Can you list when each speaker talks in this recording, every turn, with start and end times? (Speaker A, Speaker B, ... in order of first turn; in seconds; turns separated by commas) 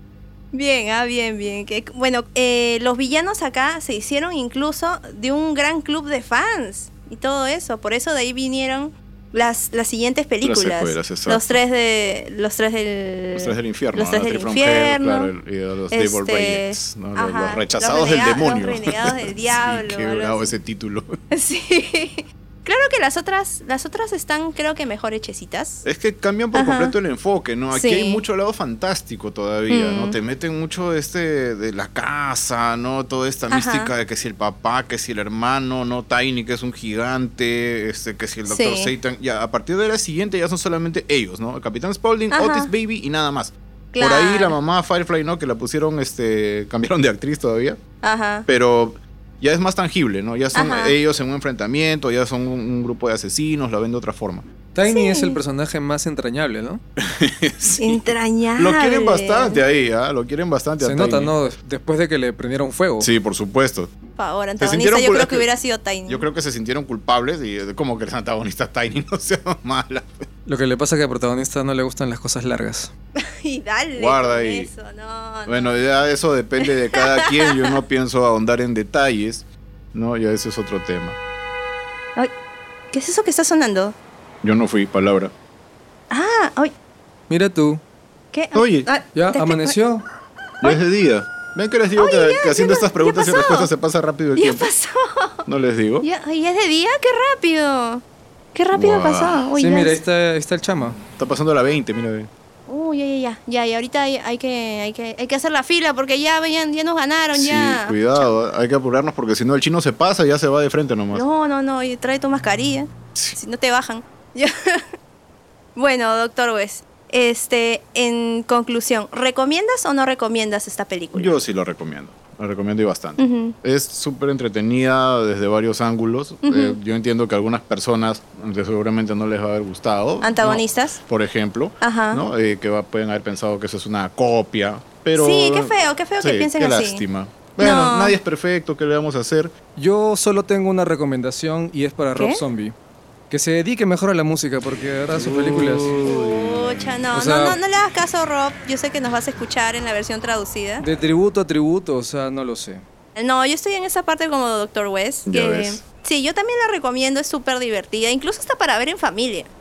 Speaker A: 0.5-15.3, Speaker B: 10.4-11.6, Speaker B: 13.3-21.2, Speaker A: 15.9-20.5, Speaker A: 21.3-25.8, Speaker B: 25.8-47.8, Speaker A: 26.5-26.9, Speaker A: 27.7-28.2, Speaker A: 29.7-30.1, Speaker A: 33.5-33.9, Speaker A: 38.5-38.9, Speaker A: 42.3-42.7, Speaker A: 43.9-44.5, Speaker A: 48.0-48.5, Speaker B: 48.5-54.5, Speaker A: 50.5-51.0, Speaker C: 54.7-56.8, Speaker A: 54.9-55.4, Speaker B: 57.0-61.3, Speaker A: 57.8-59.6, Speaker C: 60.8-63.1, Speaker B: 63.0-63.9, Speaker A: 64.2-66.2, Speaker B: 64.6-65.5, Speaker B: 66.1-70.1, Speaker C: 70.5-72.9, Speaker A: 73.2-75.8, Speaker B: 74.0-74.7, Speaker B: 75.5-81.2, Speaker A: 76.6-77.8, Speaker A: 82.9-83.9, Speaker B: 84.4-85.3, Speaker A: 86.1-86.7, Speaker C: 87.3-87.8, Speaker A: 88.3-89.8, Speaker B: 88.5-88.9, Speaker C: 89.1-90.0, Speaker B: 90.6-94.7, Speaker A: 92.0-93.7, Speaker A: 94.3-95.4, Speaker B: 95.5-96.0, Speaker A: 96.0-98.0, Speaker A: 98.5-100.0, Speaker B: 98.7-99.5, Speaker C: 99.5-101.0, Speaker B: 101.2-102.3, Speaker A: 102.7-108.3, Speaker B: 107.3-111.2, Speaker A: 111.1-114.8, Speaker A: 115.8-121.3, Speaker B: 121.1-139.5, Speaker A: 123.2-123.5, Speaker A: 126.4-126.8, Speaker A: 130.2-131.0, Speaker A: 131.8-132.2, Speaker A: 135.2-137.0, Speaker A: 137.6-138.2, Speaker C: 139.8-142.7, Speaker A: 142.2-142.4, Speaker C: 143.3-146.0, Speaker B: 145.1-146.7, Speaker A: 146.0-150.8, Speaker C: 147.1-147.6, Speaker C: 150.8-152.8, Speaker A: 153.2-159.5, Speaker B: 155.2-155.8